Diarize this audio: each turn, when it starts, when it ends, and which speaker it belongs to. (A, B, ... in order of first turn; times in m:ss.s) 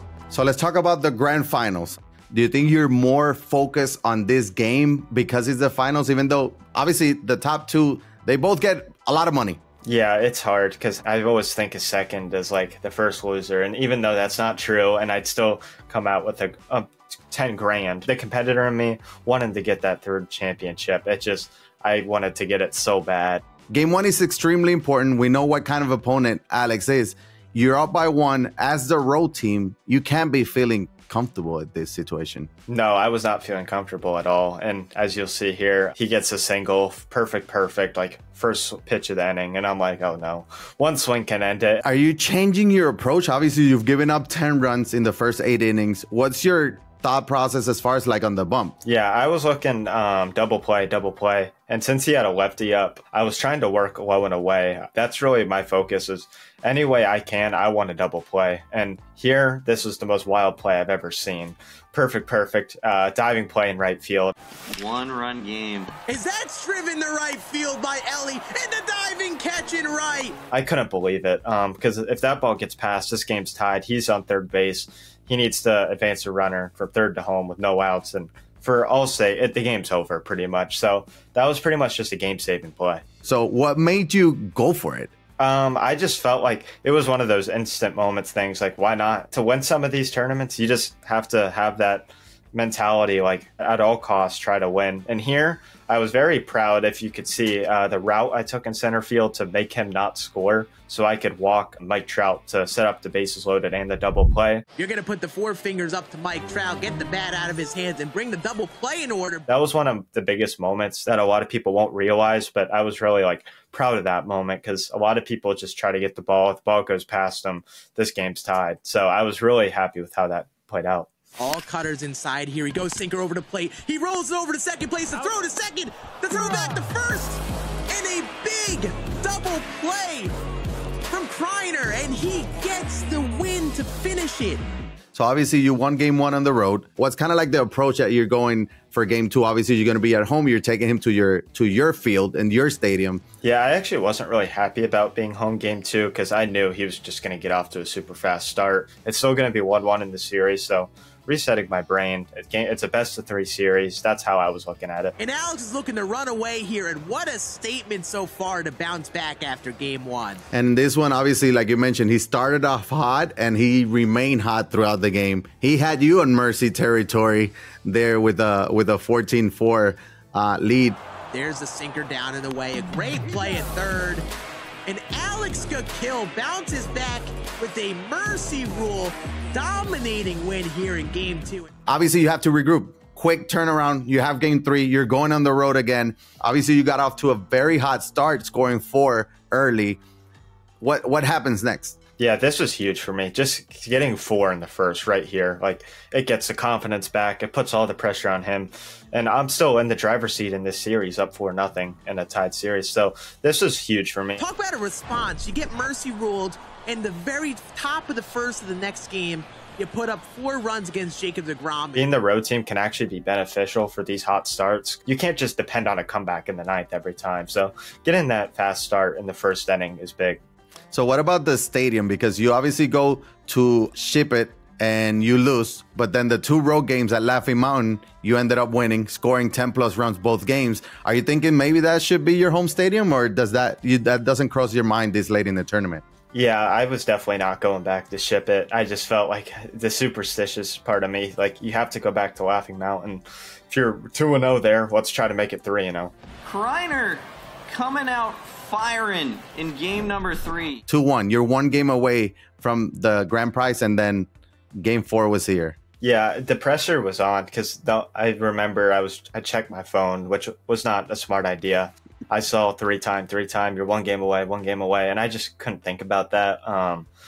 0:00.3-0:09.6 A
0:09.8-0:23.4 B
0:23.7-0:32.5 A
0:32.7-0:41.8 B
0:41.8-0:48.8 A
0:48.8-1:04.3 B
1:04.8-1:05.9 C
1:06.1-1:10.4 D
1:10.5-1:23.0 B
1:23.2-1:25.1 A
1:25.4-1:44.6 B
1:44.8-1:49.5 D
1:49.5-2:01.1 B
2:01.4-2:10.4 D
2:11.1-2:14.6 D
2:15.1-2:23.2 A
2:23.4-2:35.1 B
2:35.2-2:40.4 D
2:40.5-2:51.0 A
2:51.3-2:54.2 D
2:54.9-3:01.7 D
3:01.9-3:10.0 A
3:10.8-3:12.0 A
3:12.2-3:24.4 B
3:24.4-3:32.1 D
3:32.0-3:40.4 B
3:40.9-3:56.0 A
3:56.3-4:06.1 B
4:06.4-4:10.8 C
4:10.9-4:15.8 A
4:16.0-4:27.1 B